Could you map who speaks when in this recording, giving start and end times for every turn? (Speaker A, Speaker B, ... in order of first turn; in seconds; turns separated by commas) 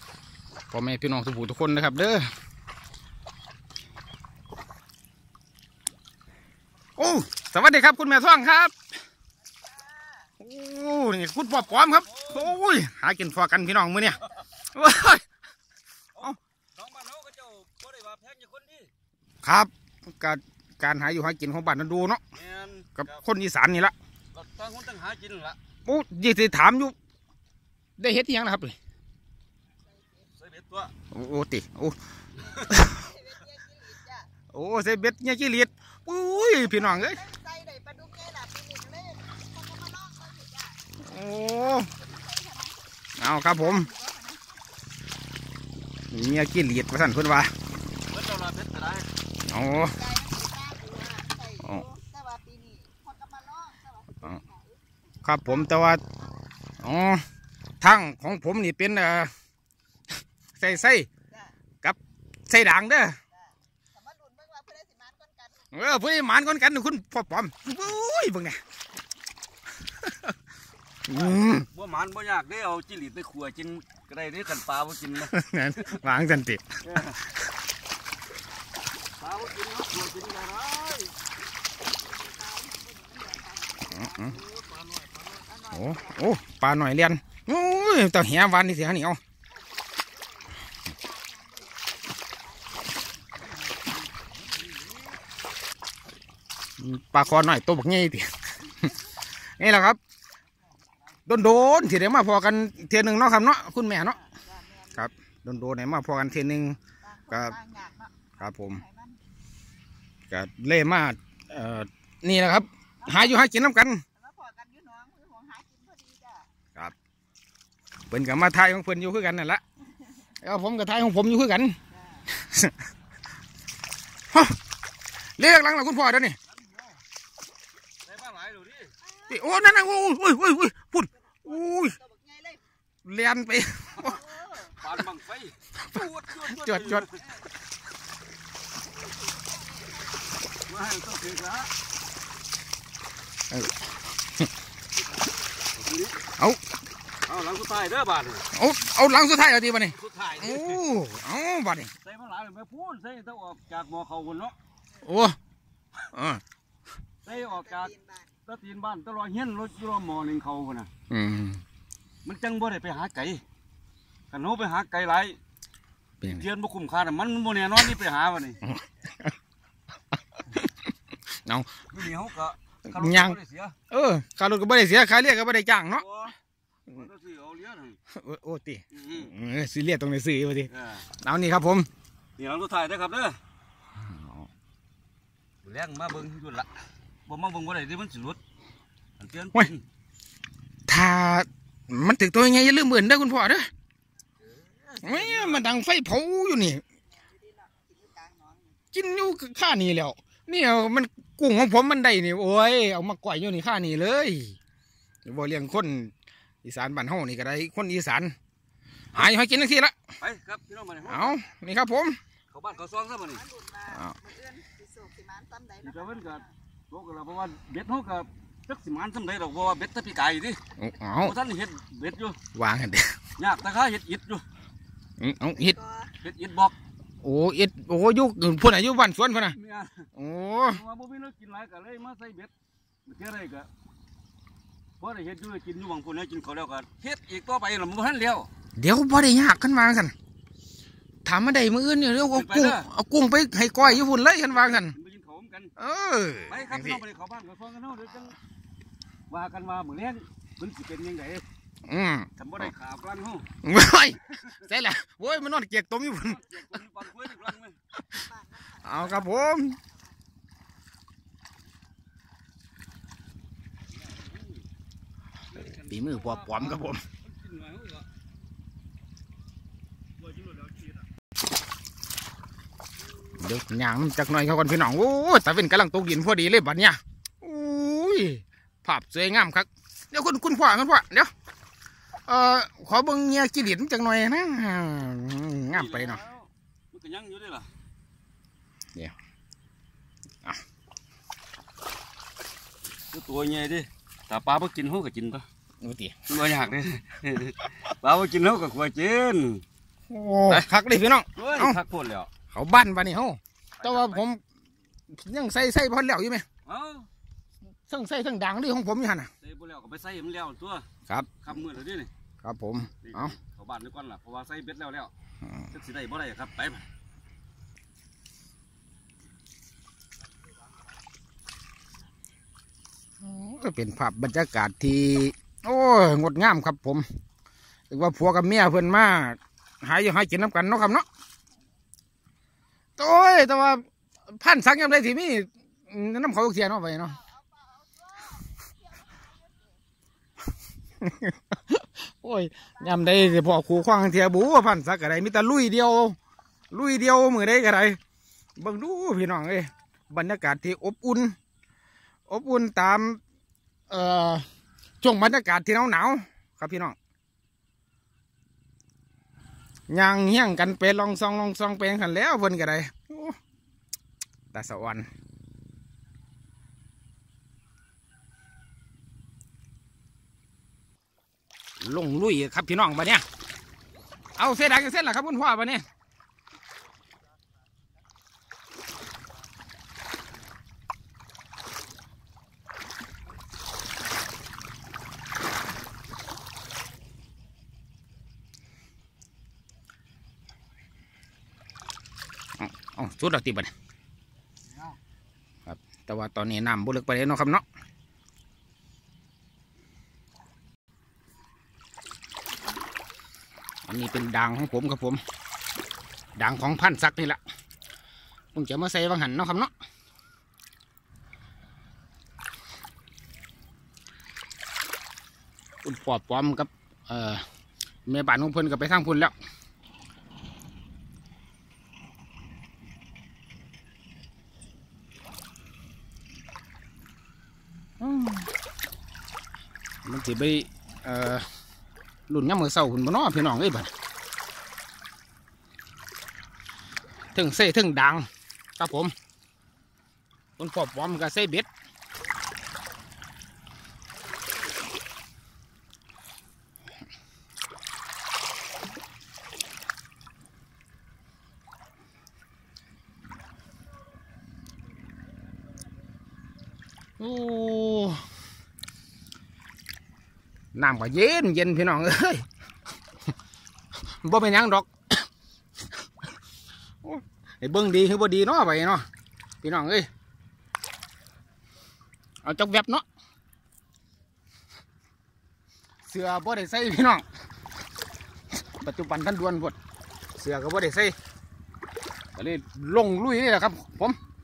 Speaker A: 0.7-2.3, Speaker A: 7.0-8.7, Speaker A: 10.4-15.2, Speaker B: 11.6-12.6, Speaker B: 16.1-18.9, Speaker A: 19.4-22.2, Speaker B: 22.3-23.1, Speaker A: 23.0-23.9, Speaker B: 24.3-25.6, Speaker A: 25.9-26.9, Speaker A: 28.0-28.8, Speaker B: 30.3-30.9, Speaker A: 31.1-32.0, Speaker B: 32.4-32.8, Speaker A: 32.6-33.1, Speaker C: 32.9-34.3, Speaker A: 34.5-37.3, Speaker C: 37.2-40.8, Speaker A: 41.0-41.9, Speaker C: 42.0-42.8, Speaker A: 43.2-43.9, Speaker C: 43.9-44.5, Speaker A: 46.1-47.5, Speaker B: 48.0-49.1, Speaker A: 49.5-50.1, Speaker C: 50.0-54.7, Speaker A: 51.6-51.9, Speaker A: 55.2-56.0, Speaker A: 56.8-57.2, Speaker A: 57.8-59.3, Speaker A: 60.5-61.1, Speaker A: 61.8-63.2, Speaker C: 64.0-65.5, Speaker A: 65.7-68.6, Speaker A: 71.1-71.7, Speaker B: 71.1-75.3, Speaker A: 75.2-76.8, Speaker B: 76.8-77.2, Speaker B: 79.2-81.2, Speaker C: 82.2-83.9, Speaker A: 83.9-84.4, Speaker B: 84.3-85.5, Speaker A: 85.7-89.2, Speaker C: 90.0-90.4, Speaker C: 91.0-92.8, Speaker A: 96.8-98.3, Speaker A: 99.5-100.0, Speaker A: 101.3-104.2, Speaker C: 104.5-104.8, Speaker A: 104.9-107.6, Speaker C: 107.1-109.2, Speaker A: 108.4-108.8, Speaker A: 110.3-114.0, Speaker C: 114.2-116.5, Speaker A: 118.1-119.6, Speaker A: 120.4-121.8, Speaker A: 122.3-122.7, Speaker A: 125.4-126.4, Speaker B: 126.5-127.0, Speaker B: 128.0-128.9, Speaker A: 129.3-132.0, Speaker C: 132.0-132.6, Speaker A: 133.0-134.2, Speaker B: 134.0-137.4, Speaker A: 135.8-137.1, Speaker C: 139.2-140.2, Speaker B: 140.7-141.7, Speaker A: 143.5-144.5, Speaker B: 145.7-146.2, Speaker B: 147.2-148.5, Speaker A: 148.5-151.9, Speaker B: 149.9-150.8, Speaker B: 152.0-154.5, Speaker A: 155.0-155.4, Speaker A: 156.0-156.4, Speaker B: 157.2-160.9, Speaker C: 158.0-158.3, Speaker A: 161.1-161.6, Speaker B: 162.2-163.4, Speaker B: 164.3-165.4, Speaker B: 166.2-168.6, Speaker A: 168.7-169.3, Speaker A: 171.4-171.8, Speaker B: 171.9-173.8, Speaker A: 172.9-176.0, Speaker B: 175.9-176.3, Speaker B: 176.9-178.0, Speaker A: 178.1-181.9, Speaker B: 178.9-179.3, Speaker B: 180.7-181.1, Speaker B: 182.4-183.4, Speaker A: 184.0-184.4, Speaker B: 185.6-186.7, Speaker B: 187.2-188.4, Speaker B: 189.2-189.8, Speaker A: 190.9-193.7, Speaker B: 194.6-195.7, Speaker A: 195.0-196.8, Speaker C: 197.3-198.7, Speaker A: 198.9-204.6, Speaker A: 205.2-206.1, Speaker A: 206.6-208.3, Speaker A: 209.1-209.9, Speaker B: 210.2-211.4, Speaker A: 211.0-212.2, Speaker B: 212.5-213.5, Speaker C: 213.5-215.8, Speaker A: 213.9-214.2, Speaker B: 215.8-220.6, Speaker A: 220.8-221.3, Speaker B: 221.2-222.4, Speaker A: 222.5-223.2, Speaker B: 223.4-224.4, Speaker A: 225.2-225.8, Speaker B: 226.1-226.7, Speaker A: 227.2-229.6, Speaker B: 229.5-230.1, Speaker A: 230.2-230.8, Speaker B: 230.7-232.5, Speaker B: 233.0-233.7, Speaker B: 235.0-238.5, Speaker A: 238.8-240.1, Speaker A: 241.2-244.9, Speaker B: 242.3-242.9, Speaker B: 243.8-245.7, Speaker A: 245.8-247.0, Speaker B: 246.5-248.4, Speaker B: 249.3-251.4, Speaker A: 251.8-252.3, Speaker B: 252.4-253.5, Speaker A: 253.6-256.5, Speaker B: 256.3-257.8, Speaker A: 258.1-259.8, Speaker C: 258.3-258.8, Speaker B: 263.9-264.6, Speaker B: 265.5-268.1, Speaker A: 265.7-267.0, Speaker B: 270.2-270.9, Speaker A: 273.4-281.3, Speaker A: 282.2-286.2, Speaker B: 285.7-287.7, Speaker B: 293.1-295.4, Speaker A: 295.8-296.3, Speaker B: 296.3-299.6, Speaker A: 300.1-301.8, Speaker B: 301.4-302.3, Speaker A: 302.5-304.4, Speaker B: 303.8-304.2, Speaker A: 305.1-306.4, Speaker B: 306.6-307.1, Speaker A: 307.9-309.3, Speaker B: 309.4-310.9, Speaker A: 311.1-311.4, Speaker B: 311.4-312.1, Speaker A: 312.4-313.3, Speaker B: 313.0-315.1, Speaker B: 315.7-316.8, Speaker A: 323.2-327.1, Speaker A: 327.9-331.1, Speaker A: 333.0-337.2, Speaker C: 337.2-339.7, Speaker A: 341.0-346.2, Speaker A: 346.7-348.0, Speaker A: 348.6-351.4, Speaker A: 352.3-353.2, Speaker A: 353.9-354.5, Speaker A: 355.0-356.9, Speaker A: 359.9-363.4, Speaker A: 364.5-365.1, Speaker A: 371.8-373.2, Speaker A: 374.4-375.8, Speaker A: 392.6-393.7, Speaker A: 395.7-397.6, Speaker A: 403.9-405.2, Speaker A: 406.4-407.4, Speaker A: 408.5-409.7, Speaker A: 415.8-417.4, Speaker A: 418.1-419.3, Speaker A: 428.0-428.5, Speaker A: 430.0-431.4, Speaker A: 432.3-433.9, Speaker A: 437.3-438.3, Speaker A: 438.8-439.1, Speaker A: 440.6-441.7, Speaker A: 457.2-458.2, Speaker A: 460.7-462.4, Speaker A: 464.2-465.2, Speaker A: 467.0-469.0, Speaker A: 469.6-470.1, Speaker A: 472.4-473.0, Speaker A: 476.1-477.2, Speaker A: 478.8-479.8, Speaker A: 480.4-481.1, Speaker A: 482.4-484.2